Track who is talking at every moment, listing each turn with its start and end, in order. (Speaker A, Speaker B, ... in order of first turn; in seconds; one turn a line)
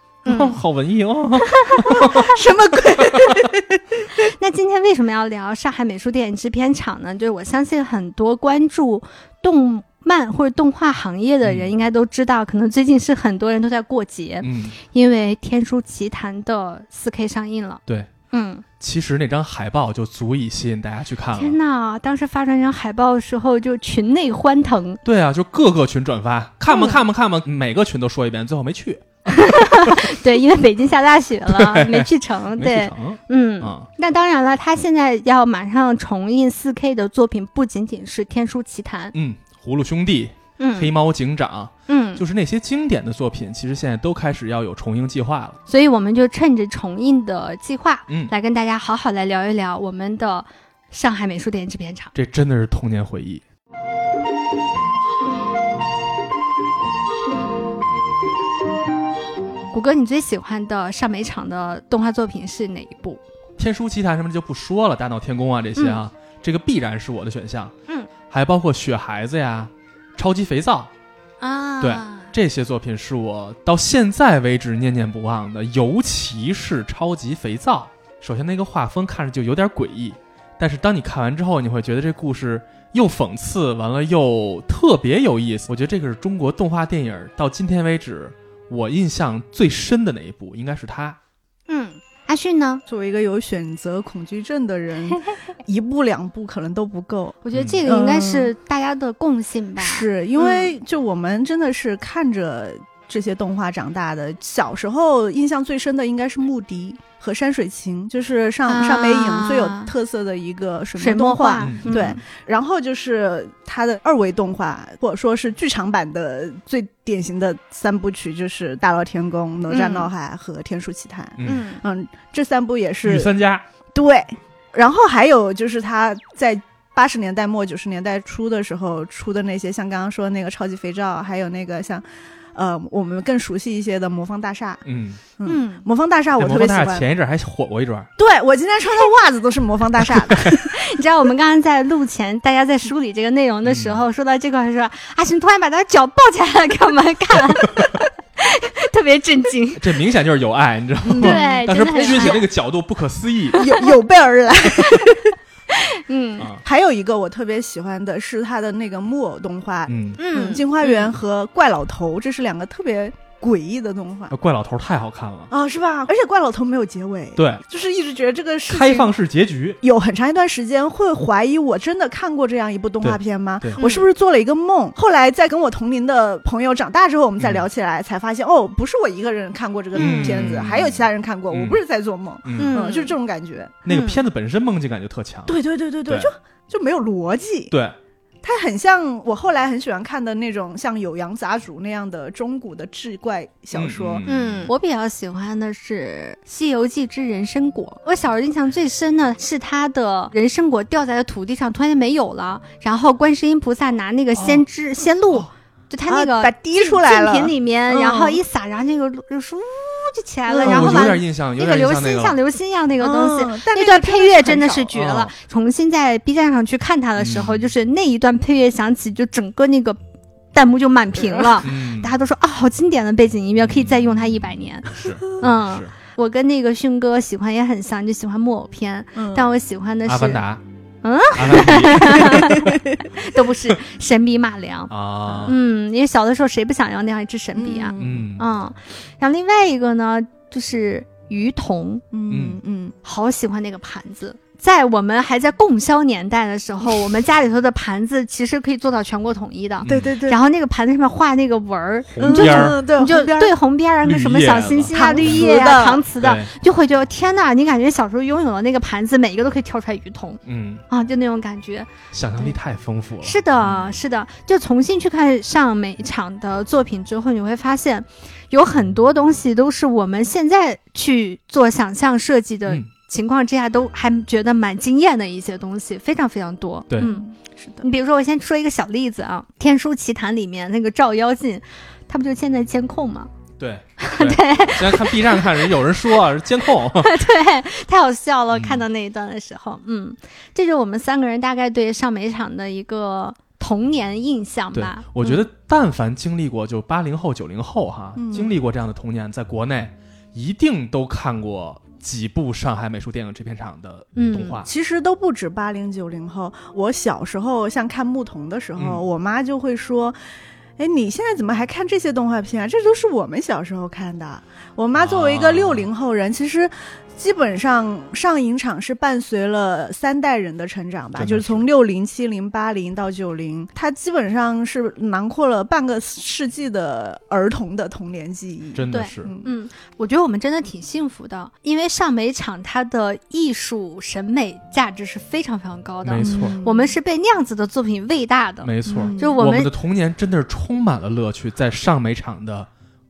Speaker A: 0.3-0.6
Speaker B: 0.3-3.5
Speaker A: 1.4-2.4
Speaker C: 1.9-4.0
Speaker A: 4.2-18.6
Speaker B: 11.4-11.7
Speaker B: 14.4-14.8
Speaker B: 18.8-21.6
Speaker A: 21.4-25.0
Speaker B: 25.0-30.1
Speaker A: 26.7-27.0
Speaker A: 29.3-39.1
Speaker B: 31.5-33.9
Speaker B: 39.1-45.6
Speaker A: 40.6-40.9
Speaker A: 41.9-42.2
Speaker A: 45.7-52.1
Speaker B: 52.1-53.4
Speaker A: 59.7-63.2
Speaker B: 63.6-67.7
Speaker B: 68.3-70.9
Speaker A: 71.4-72.3
Speaker B: 71.8-91.2
Speaker A: 91.7-92.8
Speaker C: 92.9-98.5
Speaker A: 97.4-100.7
Speaker C: 99.8-123.3
Speaker A: 108.7-109.9
Speaker A: 111.0-112.2
Speaker B: 111.6-111.9
Speaker A: 119.7-120.1
Speaker B: 121.4-121.6
Speaker A: 121.4-121.8
Speaker B: 123.0-123.7
Speaker C: 124.0-134.8
Speaker B: 134.9-135.2
Speaker C: 135.4-137.1
Speaker A: 135.5-135.8
Speaker B: 136.4-138.1
Speaker C: 138.2-140.7
Speaker B: 140.3-140.5
Speaker A: 140.4-150.0
Speaker B: 143.6-144.1
Speaker B: 149.8-153.7
Speaker C: 151.1-152.4
Speaker A: 151.2-152.4
Speaker A: 153.6-153.8
Speaker C: 153.6-155.4
Speaker A: 154.7-155.2
Speaker A: 155.7-156.5
Speaker B: 156.4-156.6
Speaker C: 156.6-164.3
Speaker B: 159.9-160.2
Speaker A: 160.2-161.1
Speaker B: 164.3-165.5
Speaker C: 165.5-169.1
Speaker B: 167.4-167.6
Speaker B: 168.7-169.8
Speaker C: 169.8-183.8
Speaker B: 173.0-173.8
Speaker A: 173.8-174.1
Speaker B: 177.4-177.7
Speaker A: 180.0-180.5
Speaker B: 180.0-181.8
Speaker B: 182.4-182.8
Speaker A: 182.6-183.2
Speaker B: 183.8-185.6
Speaker A: 183.9-184.2
Speaker C: 185.5-187.7
Speaker B: 187.7-188.0
Speaker C: 188.4-194.3
Speaker B: 193.7-194.7
Speaker A: 194.2-220.0
Speaker C: 206.1-208.4
Speaker C: 210.5-211.2
Speaker B: 210.6-212.4
Speaker C: 213.0-214.9
Speaker B: 214.9-215.3
Speaker B: 217.2-217.7
Speaker A: 220.5-230.4
Speaker C: 221.2-221.6
Speaker B: 221.6-222.1
Speaker B: 223.7-224.0
Speaker B: 224.9-225.9
Speaker C: 229.2-229.5
Speaker B: 230.1-230.6
Speaker A: 231.0-234.9
Speaker B: 231.3-232.8
Speaker C: 232.2-233.0
Speaker B: 234.9-235.6
Speaker A: 235.4-242.0
Speaker C: 237.6-238.3
Speaker B: 238.0-238.5
Speaker C: 242.1-242.9
Speaker B: 242.3-242.6
Speaker A: 243.0-261.9
Speaker B: 249.8-250.2
Speaker C: 249.9-250.4
Speaker B: 252.1-252.8
Speaker C: 252.2-253.5
Speaker B: 254.1-255.5
Speaker C: 254.9-256.1
Speaker B: 256.2-256.5
Speaker B: 260.5-260.8
Speaker B: 262.1-263.9
Speaker A: 263.2-277.2
Speaker C: 277.0-277.9
Speaker A: 277.8-283.3
Speaker B: 283.6-287.1
Speaker A: 284.0-285.7
Speaker A: 287.0-295.4
Speaker B: 288.5-288.9
Speaker B: 294.7-304.7
Speaker C: 298.2-298.6
Speaker A: 304.1-304.6
Speaker C: 304.7-310.2
Speaker B: 308.8-309.0
Speaker C: 310.8-329.5
Speaker B: 314.9-315.9
Speaker B: 321.1-321.7
Speaker B: 328.7-329.3
Speaker A: 328.9-339.7
Speaker B: 336.0-336.6
Speaker C: 336.2-336.9
Speaker B: 338.6-342.7
Speaker C: 338.9-339.3